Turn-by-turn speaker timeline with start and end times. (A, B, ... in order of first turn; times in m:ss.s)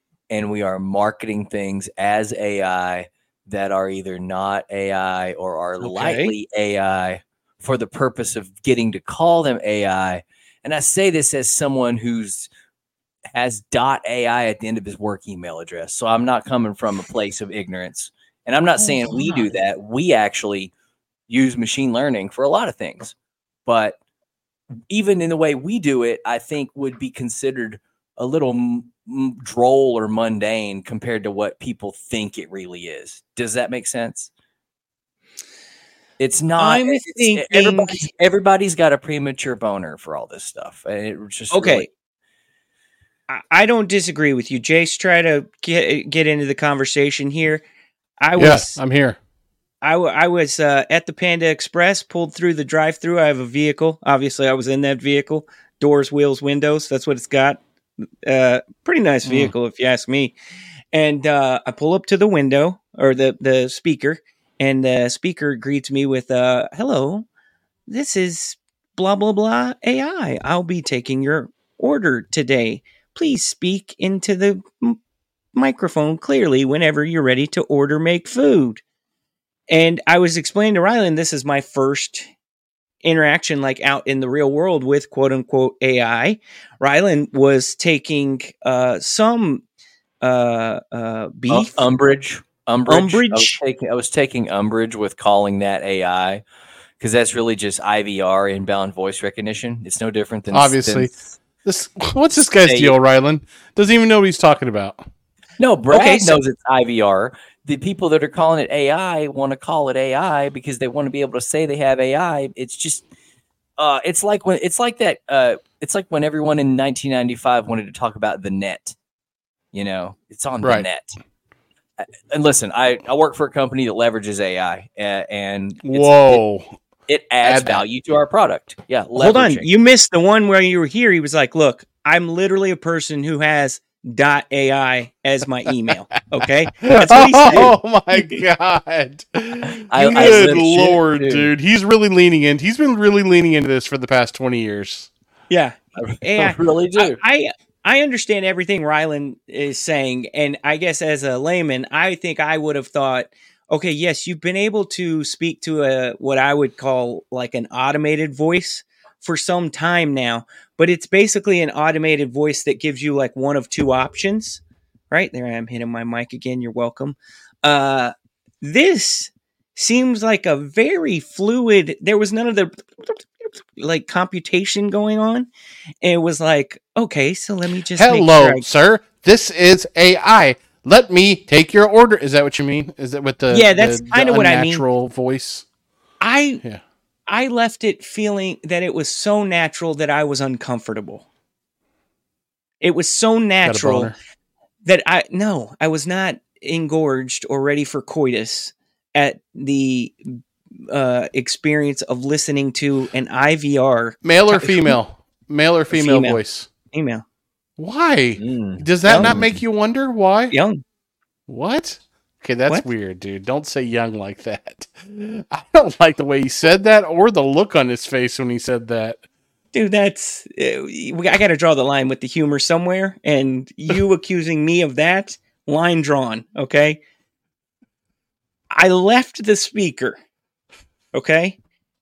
0:00.3-0:12.5 A
0:05.8-0:06.4 B
0:13.3-0:20.7 A
0:18.8-0:19.4 B
0:21.3-0:23.2 A
0:23.7-0:24.0 A
0:24.9-0:34.3 A
0:36.2-0:41.9 A
0:36.6-0:38.1 B
0:41.5-0:41.9 B
0:43.3-0:47.6 B
0:48.2-0:48.8 B
0:48.4-0:49.2 C
0:49.8-1:00.4 B
1:00.9-1:07.3 B
1:07.9-1:15.0 B
1:15.5-1:18.8 B
1:19.7-1:22.3 B
1:23.0-1:29.6 B
1:30.2-1:31.9 B
1:31.5-1:36.4 A
1:32.9-1:33.6 B
1:37.0-1:41.3 A
1:40.5-1:41.1 C
1:41.6-1:45.1 C
1:42.6-1:43.0 A
1:45.6-1:53.0 A
1:45.9-1:46.4 B
1:53.8-1:59.0 A
1:59.7-2:01.2 A
2:00.6-2:00.9 C
2:02.0-2:06.4 A
2:05.8-2:06.8 C
2:07.1-2:09.7 A
2:07.4-2:07.8 C
2:09.2-2:17.8 B
2:16.8-2:25.1 C
2:19.8-2:21.5 A
2:20.0-2:20.4 B
2:25.5-2:55.5 B
2:26.0-2:27.2 A
2:56.0-2:58.7 B
2:58.0-3:05.7 C
3:03.5-3:04.8 B
3:06.2-3:06.6 B
3:07.3-3:11.2 B
3:12.8-3:14.1 B
3:13.6-3:14.2 C
3:14.8-3:25.0 B
3:24.2-3:26.7 C
3:25.9-3:26.4 B
3:26.9-3:27.2 B
3:27.8-3:30.6 C
3:28.4-3:29.6 A
3:29.1-3:29.3 B
3:30.5-3:30.8 B
3:31.5-3:39.2 C
3:39.7-3:47.0 B
3:48.7-3:50.2 B
3:51.1-3:51.6 B